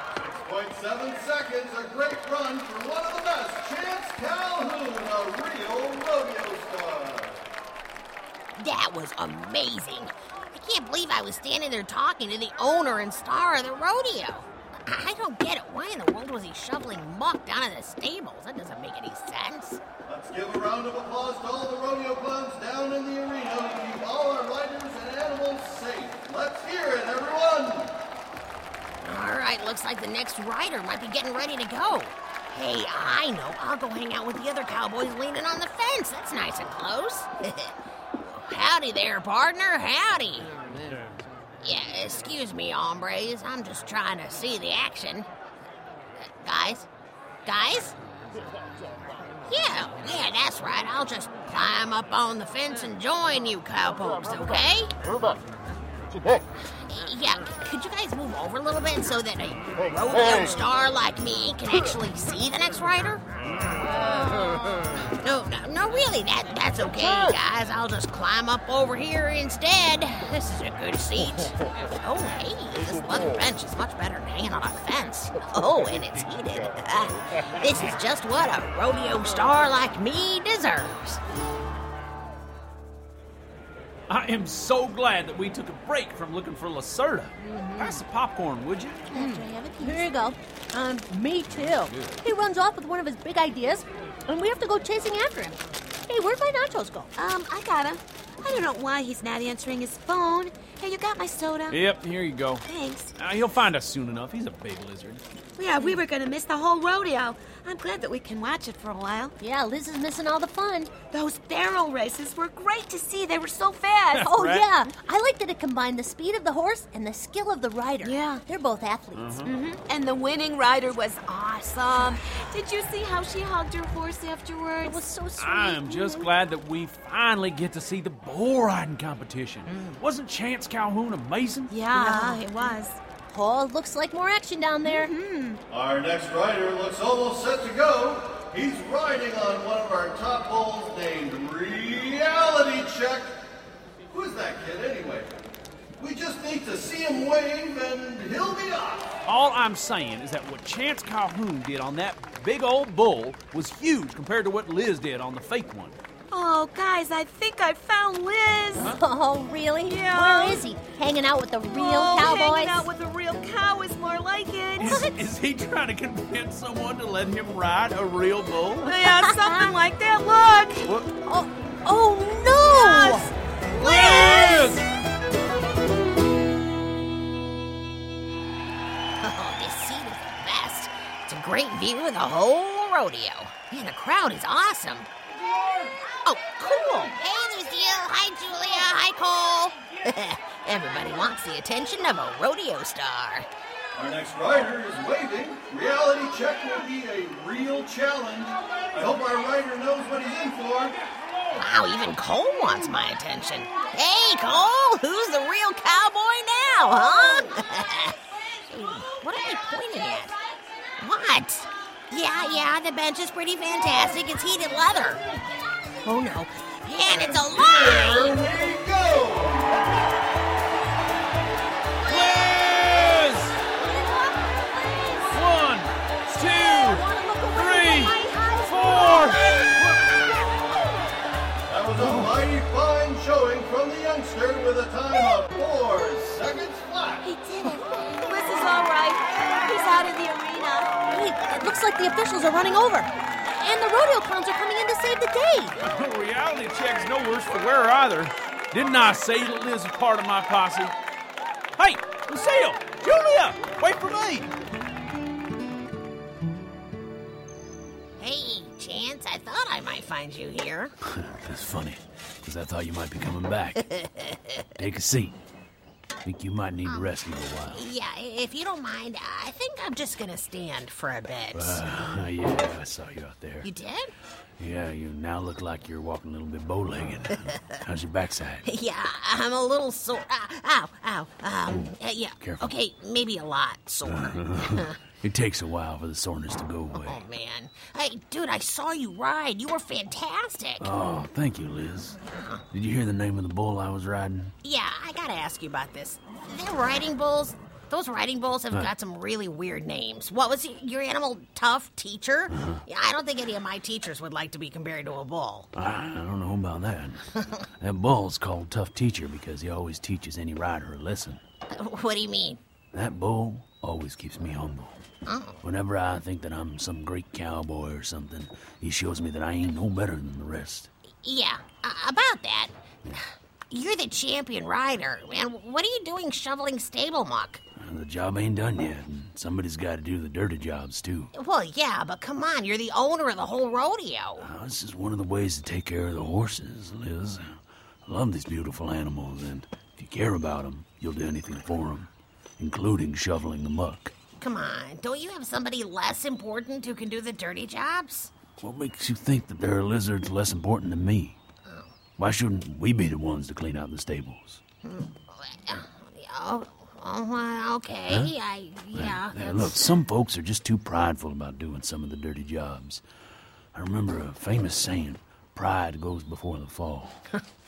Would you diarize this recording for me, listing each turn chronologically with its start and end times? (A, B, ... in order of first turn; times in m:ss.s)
0:00.2-0:07.5 A
0:08.6-0:19.8 B
0:20.0-0:28.0 A
0:29.0-0:40.5 B
0:41.6-0:45.3 B
0:46.2-0:46.9 B
0:47.4-0:48.0 B
0:49.4-0:54.9 B
0:56.7-1:03.2 B
1:05.2-1:21.2 B
1:24.1-1:29.1 C
1:27.4-1:28.0 D
1:29.1-1:30.1 E
1:29.1-1:37.1 D
1:31.6-1:32.2 C
1:37.2-1:41.8 E
1:41.7-1:45.2 C
1:42.6-1:43.1 E
1:45.6-1:49.3 E
1:49.4-1:50.9 D
1:51.1-1:54.3 E
1:54.1-1:54.7 C
1:54.2-1:59.4 D
1:58.0-1:58.4 E
1:59.1-1:59.5 C
1:59.4-2:05.0 E
2:04.8-2:06.3 D
2:05.4-2:11.8 C
2:11.7-2:13.0 E
2:11.9-2:12.4 D
2:13.3-2:15.1 D
2:14.9-2:15.6 E
2:15.7-2:23.4 A
2:24.1-2:25.5 A
2:26.0-2:29.1 A
2:29.2-2:36.0 C
2:36.3-2:38.9 E
2:38.8-2:42.9 D
2:39.8-2:40.6 E
2:41.7-2:45.1 E
2:44.8-2:45.1 D
2:44.8-2:49.0 C
2:48.8-2:50.9 E
2:49.0-2:49.7 D
2:50.8-2:51.1 C
2:51.2-2:54.8 D
2:52.7-2:53.3 E
2:53.8-2:54.8 C
2:59.2-3:05.1 B
3:06.2-3:13.5 B
3:14.0-3:21.0 A
3:21.6-3:28.2 B
3:28.7-3:30.4 B
3:31.0-3:35.2 B
3:36.0-3:38.4 B
3:37.1-3:40.0 A
3:42.0-3:43.6 C
3:43.7-3:45.6 D
3:45.3-3:50.6 C
3:46.3-3:49.6 D
3:51.7-3:57.3 A
3:52.0-3:52.3 C
3:57.2-4:01.1 E
4:01.1-4:05.7 D
4:05.8-4:11.0 C
4:11.8-4:14.5 C
4:18.2-4:20.9 B
4:21.0-4:23.9 F
4:23.8-4:24.6 B
4:24.8-4:25.4 F
4:26.2-4:27.8 F
4:27.7-4:31.8 B
4:31.5-4:33.7 F
4:33.6-4:34.1 B
4:34.6-4:38.6 F
4:38.6-4:45.0 B
4:41.7-4:42.7 F
4:44.0-4:47.2 F
4:46.9-4:50.9 B
4:50.8-4:52.2 F
4:52.3-4:52.6 B
4:52.7-4:54.5 F
4:54.6-5:05.7 B
5:02.5-5:02.8 F
5:05.7-5:11.4 F
5:11.7-5:12.6 B
5:12.9-5:15.0 F
5:15.2-5:15.6 B
5:15.6-5:20.9 F
5:21.2-5:27.6 B
5:27.8-5:31.3 F
5:31.3-5:34.5 B
5:34.4-5:44.1 F
5:44.4-5:48.3 B
5:48.6-5:51.4 F
5:51.6-5:51.9 B
5:52.2-5:54.6 F
5:54.8-5:59.9 B
5:58.9-6:03.0 F
6:03.7-6:07.2 F